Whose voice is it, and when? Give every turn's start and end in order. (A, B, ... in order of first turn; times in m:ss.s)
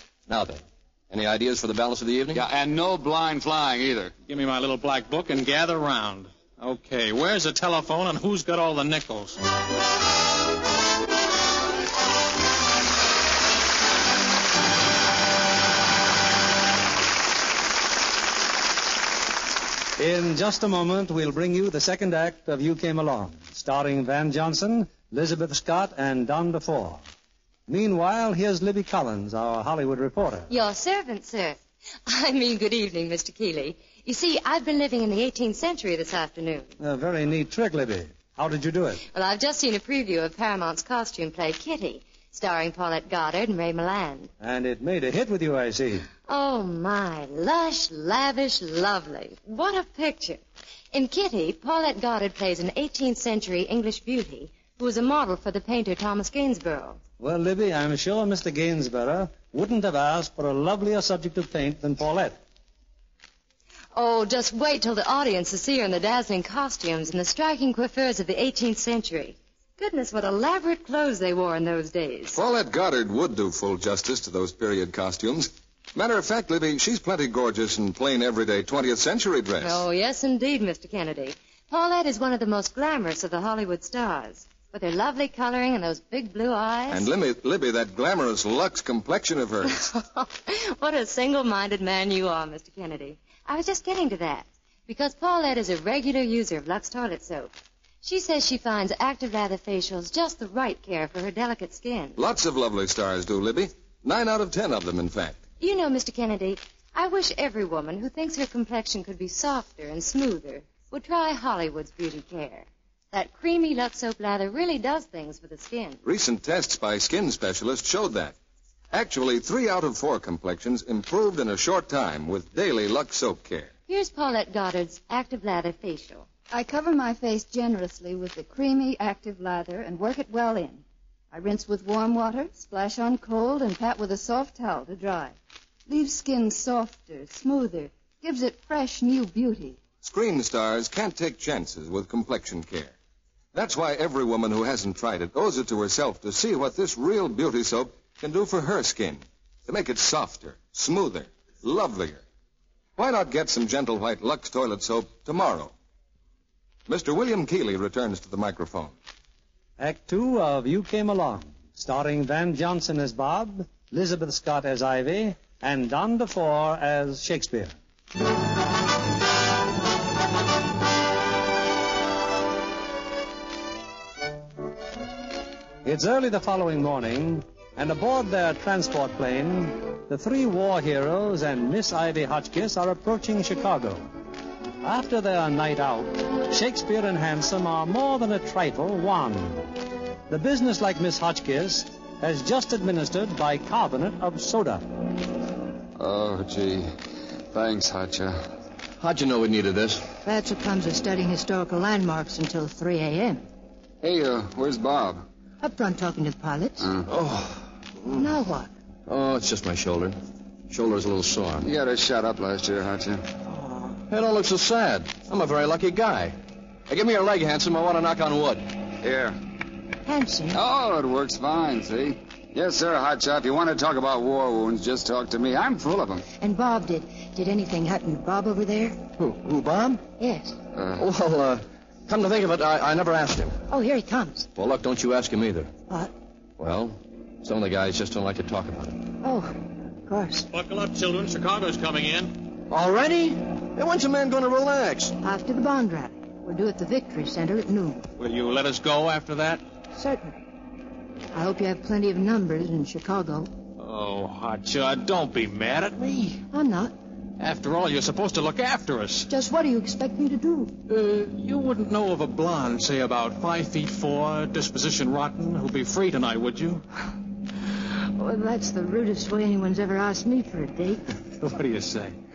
0:00.3-0:02.4 A
0:02.3-0:04.1 B
0:04.3-0:09.4 C
0:20.0-0:27.0 D
0:27.7-0:30.5 D
0:30.5-0:36.7 E
0:36.8-0:39.0 D
0:39.1-0:44.3 E
0:44.4-0:46.1 D
0:46.3-0:50.4 E
0:50.9-0:57.0 E
0:57.2-1:02.4 D
1:04.0-1:12.4 E
1:12.3-1:19.8 F
1:19.6-1:27.0 E
1:26.9-1:29.7 F
1:29.7-1:37.5 E
1:38.0-1:42.2 E
1:42.2-1:45.4 F
1:45.6-1:56.0 E
1:56.0-1:58.4 F
1:58.9-2:03.7 F
2:03.9-2:06.3 E
2:06.5-2:15.3 G
2:15.9-2:19.8 G
2:20.0-2:23.0 F
2:23.5-2:32.2 F
2:33.0-2:35.7 F
2:36.9-2:38.9 F
2:39.8-2:47.8 D
2:55.8-3:04.1 D
3:04.8-3:09.7 D
3:10.3-3:14.8 D
3:16.0-3:16.9 B
3:17.5-3:18.4 B
3:19.0-3:20.0 A
3:20.2-3:23.4 H
3:24.0-3:25.2 B
3:25.6-3:26.9 H
3:26.8-3:27.1 B
3:27.1-3:28.2 A
3:28.2-3:28.7 H
3:29.1-3:30.2 A
3:30.7-3:31.6 A
3:31.6-3:33.2 B
3:34.1-3:36.4 A
3:36.9-3:38.6 A
3:39.0-3:39.4 B
3:40.0-3:40.6 H
3:40.5-3:46.2 B
3:46.4-3:49.0 H
3:49.2-3:50.0 A
3:50.2-3:50.6 H
3:50.7-3:51.0 B
3:51.0-3:53.6 A
3:53.7-3:54.5 H
3:54.6-3:55.7 A
3:56.6-3:59.0 A
3:59.2-4:00.5 H
4:00.5-4:02.4 C
4:02.7-4:05.1 A
4:05.2-4:08.0 H
4:08.2-4:09.6 C
4:09.9-4:10.4 H
4:11.3-4:13.5 H
4:13.8-4:16.4 C
4:16.5-4:17.0 H
4:17.4-4:19.3 C
4:19.3-4:20.7 H
4:20.9-4:26.8 C
4:28.2-4:31.1 H
4:31.4-4:32.2 C